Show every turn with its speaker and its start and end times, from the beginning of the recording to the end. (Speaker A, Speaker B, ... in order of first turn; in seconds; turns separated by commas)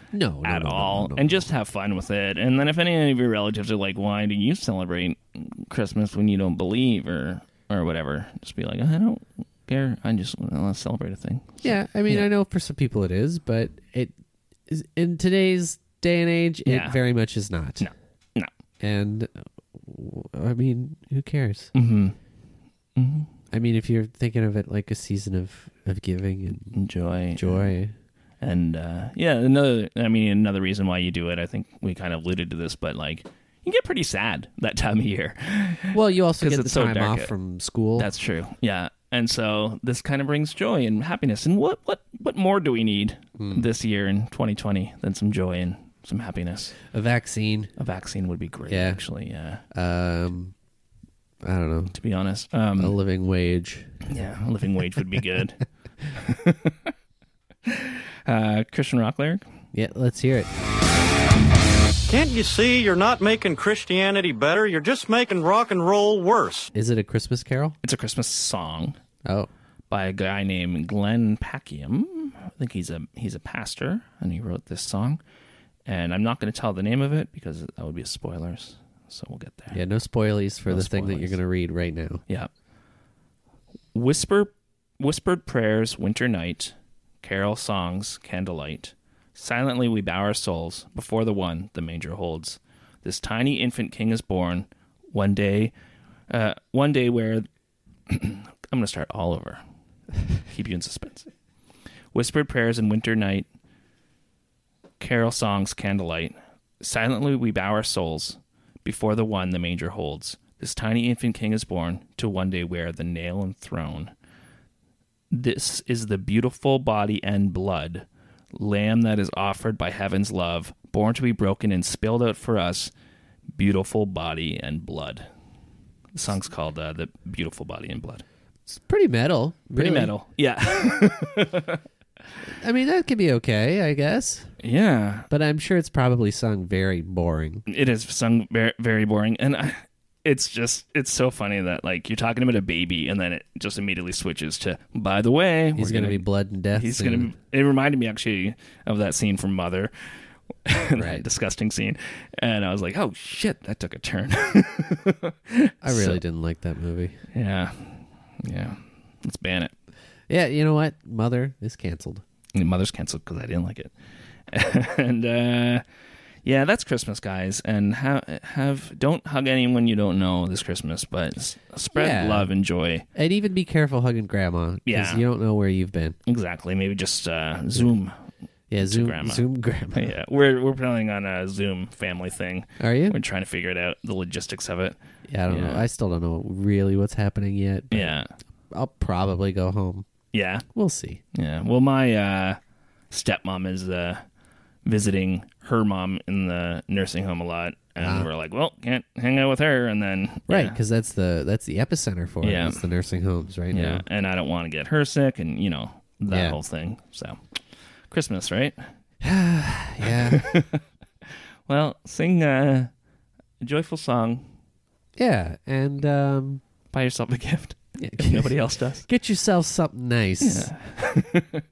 Speaker A: 0.1-1.5, Speaker B: 0.4-12.3, Speaker A: 11.6-14.1, Speaker A: 14.7-17.9, Speaker B: 16.6-17.0, Speaker B: 17.8-18.5, Speaker A: 18.8-21.7, Speaker B: 21.7-22.2, Speaker B: 23.0-23.3, Speaker A: 23.5-26.8, Speaker B: 26.7-27.7, Speaker A: 27.4-27.9, Speaker B: 28.4-37.3, Speaker A: 35.9-38.1, Speaker B: 38.0-46.7, Speaker A: 43.4-43.7, Speaker A: 46.8-47.7, Speaker B: 47.8-49.6, Speaker A: 48.7-49.0, Speaker A: 49.7-50.5, Speaker A: 51.4-52.0, Speaker B: 51.9-53.0, Speaker A: 52.8-54.0, Speaker B: 54.1-56.9, Speaker B: 57.7-59.4, Speaker A: 59.7-60.5, Speaker C: 62.1-66.7, Speaker A: 66.7-67.8, Speaker B: 67.8-69.0, Speaker A: 69.2-69.5, Speaker B: 69.9-75.2, Speaker B: 75.9-79.8, Speaker A: 79.7-82.2, Speaker B: 80.7-81.4, Speaker B: 83.9-95.7, Speaker B: 96.3-97.5, Speaker B: 98.1-99.6, Speaker B: 100.4-101.3, Speaker B: 102.1-103.5, Speaker B: 105.0-114.1, Speaker B: 115.3-122.9, Speaker B: 123.5-125.3, Speaker B: 126.1-128.2, Speaker A: 128.7-130.1, Speaker B: 129.8-131.8, Speaker A: 132.4-134.5, Speaker B: 134.6-135.3, Speaker A: 135.3-137.7, Speaker B: 137.7-146.2, Speaker A: 145.8-147.3, Speaker B: 146.8-149.9, Speaker B: 150.7-156.2, Speaker A: 150.9-151.2, Speaker A: 155.8-157.2, Speaker B: 157.3-159.7, Speaker A: 160.3-162.2, Speaker B: 162.6-163.9, Speaker B: 164.5-165.8, Speaker B: 166.4-173.1, Speaker A: 171.9-172.5, Speaker A: 173.2-176.2, Speaker B: 174.9-175.2, Speaker B: 176.3-178.1, Speaker A: 178.7-180.1, Speaker B: 178.8-185.8, Speaker A: 182.8-183.2, Speaker A: 185.3-188.2, Speaker B: 187.9-188.3, Speaker A: 188.7-190.1, Speaker B: 190.3-190.7, Speaker A: 190.7-191.2, Speaker B: 191.3-192.6, Speaker B: 193.1-194.2, Speaker B: 194.9-200.8, Speaker A: 198.0-198.3, Speaker A: 200.5-204.0, Speaker B: 202.4-202.8, Speaker B: 203.7-208.9, Speaker A: 206.3-206.6, Speaker A: 209.2-210.5, Speaker B: 210.0-210.8, Speaker B: 211.7-212.9, Speaker B: 213.6-214.5, Speaker A: 215.2-216.6, Speaker B: 216.9-219.1, Speaker A: 218.0-220.7, Speaker B: 220.4-221.6